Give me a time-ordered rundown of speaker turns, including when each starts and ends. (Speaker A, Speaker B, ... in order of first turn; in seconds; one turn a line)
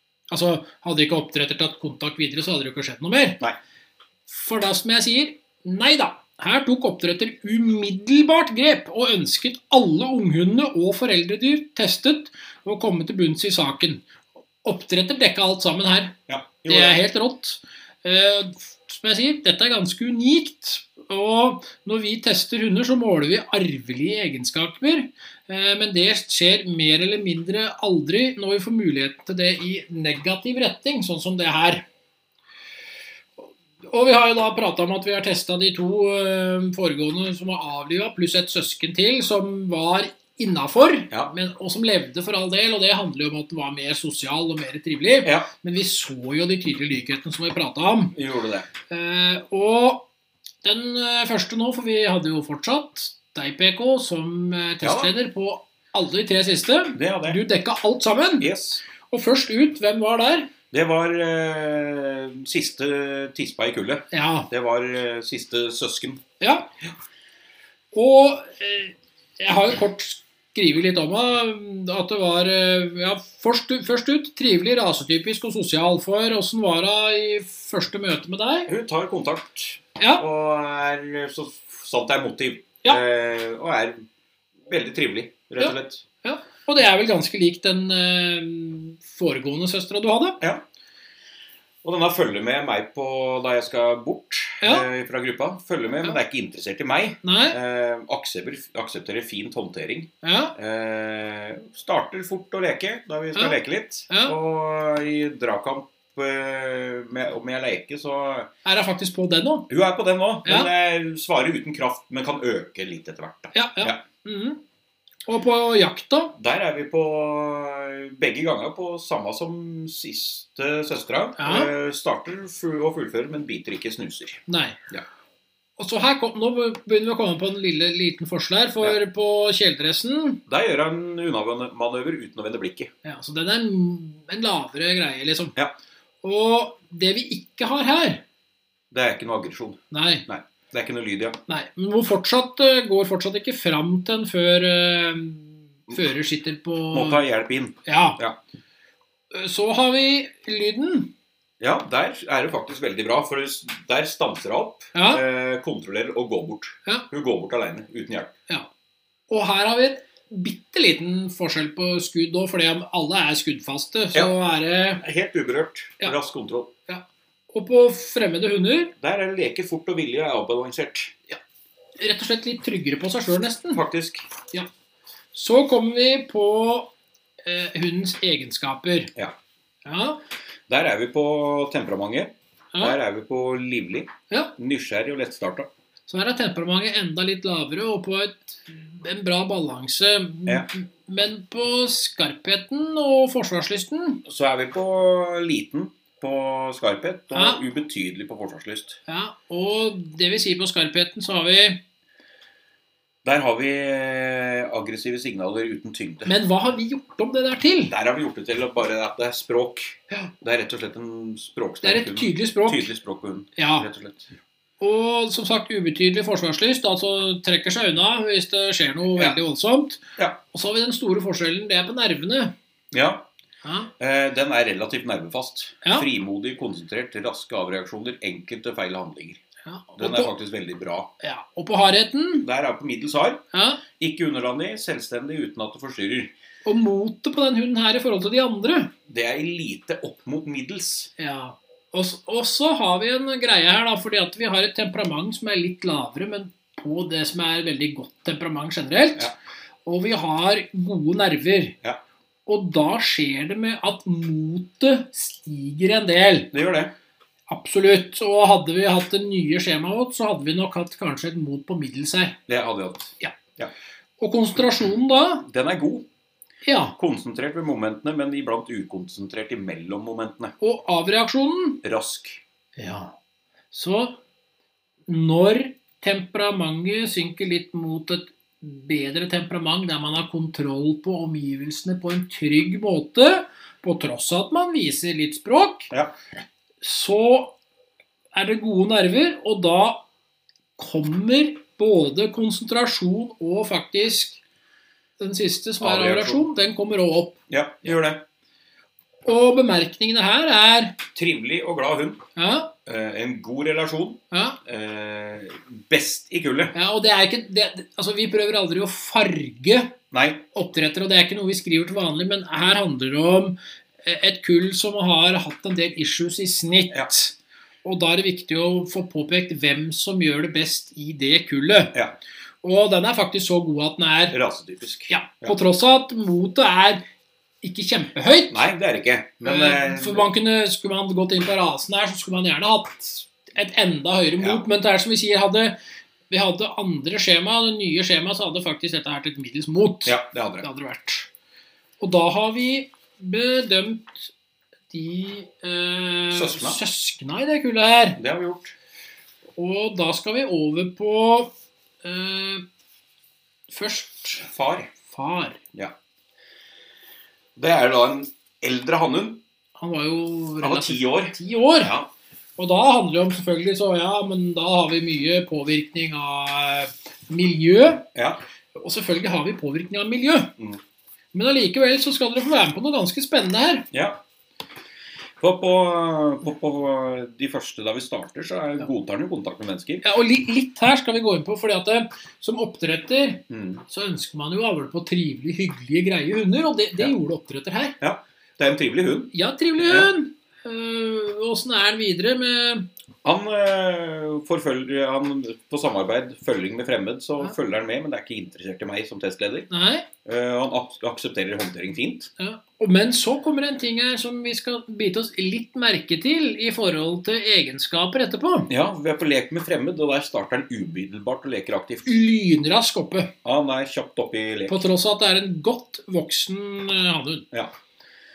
Speaker A: 0.3-3.4
Speaker A: 4.3-14.1
Speaker A: 14.6-31.9
Speaker B: 16.3-17.0
Speaker A: 33.9-48.1
Speaker B: 45.2-45.5
Speaker B: 48.1-48.7
Speaker A: 48.9-50.1
Speaker A: 50.6-58.5
Speaker B: 54.8-55.1
Speaker B: 57.0-57.4
Speaker B: 58.4-58.8
Speaker A: 59.1-60.5
Speaker B: 60.7-66.2
Speaker A: 64.1-64.5
Speaker A: 66.4-66.7
Speaker A: 67.9-78.7
Speaker B: 78.7-84.0
Speaker A: 80.0-80.2
Speaker B: 84.7-86.0
Speaker A: 85.6-90.4
Speaker B: 91.8-108.5
Speaker A: 97.2-97.6
Speaker A: 100.2-100.5
Speaker A: 104.1-104.3
Speaker A: 108.7-109.7
Speaker B: 109.7-114.0
Speaker A: 113.5-114.6
Speaker A: 115.3-116.3
Speaker B: 116.4-125.0
Speaker A: 121.4-121.7
Speaker A: 124.5-124.8
Speaker A: 125.8-130.4
Speaker B: 130.5-132.9
Speaker A: 133.0-135.6
Speaker A: 136.2-138.2
Speaker B: 138.9-141.4
Speaker A: 139.9-140.3
Speaker A: 141.5-147.2
Speaker B: 146.9-148.4
Speaker A: 147.9-148.2
Speaker A: 149.3-151.1
Speaker B: 151.6-158.3
Speaker A: 154.9-155.2
Speaker A: 159.3-165.0
Speaker B: 165.0-166.7
Speaker A: 166.9-168.9
Speaker B: 169.0-171.1
Speaker A: 172.0-173.8
Speaker B: 173.7-174.3
Speaker A: 175.3-176.9
Speaker A: 177.4-179.1
Speaker A: 179.8-180.2
Speaker B: 180.7-185.7
Speaker A: 186.1-194.2
Speaker B: 194.2-199.0
Speaker A: 197.3-197.6
Speaker A: 199.1-201.8
Speaker B: 203.2-206.3
Speaker A: 206.3-207.9
Speaker B: 207.9-214.3
Speaker A: 211.8-212.9
Speaker A: 213.6-213.9
Speaker A: 214.8-222.5
Speaker B: 222.9-223.3
Speaker A: 223.6-223.9
Speaker B: 224.0-229.4
Speaker A: 229.7-230.3
Speaker B: 230.0-231.1
Speaker A: 231.2-232.5
Speaker B: 232.4-233.4
Speaker A: 233.5-233.8
Speaker B: 234.0-236.3
Speaker A: 236.7-238.9
Speaker B: 239.1-241.1
Speaker A: 241.2-249.3
Speaker A: 249.9-251.8
Speaker A: 252.5-256.5
Speaker B: 256.5-256.9
Speaker A: 257.5-262.4
Speaker B: 262.5-263.7
Speaker A: 264.2-265.5
Speaker B: 265.4-266.1
Speaker A: 266.6-266.9
Speaker B: 267.0-270.5
Speaker A: 270.6-271.8
Speaker B: 271.8-272.4
Speaker A: 272.8-273.1
Speaker A: 273.7-274.2
Speaker A: 275.1-285.9
Speaker A: 286.8-287.6
Speaker A: 288.3-290.1
Speaker A: 290.8-294.4
Speaker A: 295.2-297.9
Speaker B: 295.8-296.5
Speaker B: 297.5-298.2
Speaker A: 299.2-301.0
Speaker B: 301.1-302.2
Speaker A: 302.4-302.7
Speaker B: 302.9-306.7
Speaker A: 304.3-304.6
Speaker A: 306.7-310.0
Speaker B: 310.1-310.4
Speaker A: 310.5-321.9
Speaker A: 322.6-324.4
Speaker B: 324.3-325.6
Speaker A: 325.1-327.0
Speaker A: 327.6-328.6
Speaker B: 328.5-330.3
Speaker A: 329.4-335.8
Speaker A: 336.3-341.3
Speaker B: 340.1-340.7
Speaker A: 342.0-344.3
Speaker A: 344.9-348.2
Speaker B: 346.3-346.8
Speaker B: 348.2-348.8
Speaker A: 349.6-351.5
Speaker A: 352.0-352.6
Speaker A: 353.7-354.5
Speaker B: 354.4-354.9
Speaker A: 355.1-355.6
Speaker B: 357.6-359.4
Speaker A: 359.8-361.9
Speaker B: 360.6-362.1
Speaker A: 362.6-368.1
Speaker B: 368.1-368.4
Speaker A: 368.8-370.5
Speaker A: 371.3-373.9
Speaker B: 373.9-374.2
Speaker B: 375.4-380.0
Speaker A: 380.0-388.0
Speaker B: 383.5-383.8
Speaker B: 388.0-390.1
Speaker A: 389.3-392.9
Speaker B: 393.2-399.7
Speaker A: 399.7-400.1
Speaker B: 400.2-402.3
Speaker A: 402.4-408.7
Speaker B: 408.7-412.2
Speaker A: 412.1-413.3
Speaker B: 413.4-414.8
Speaker A: 414.7-417.5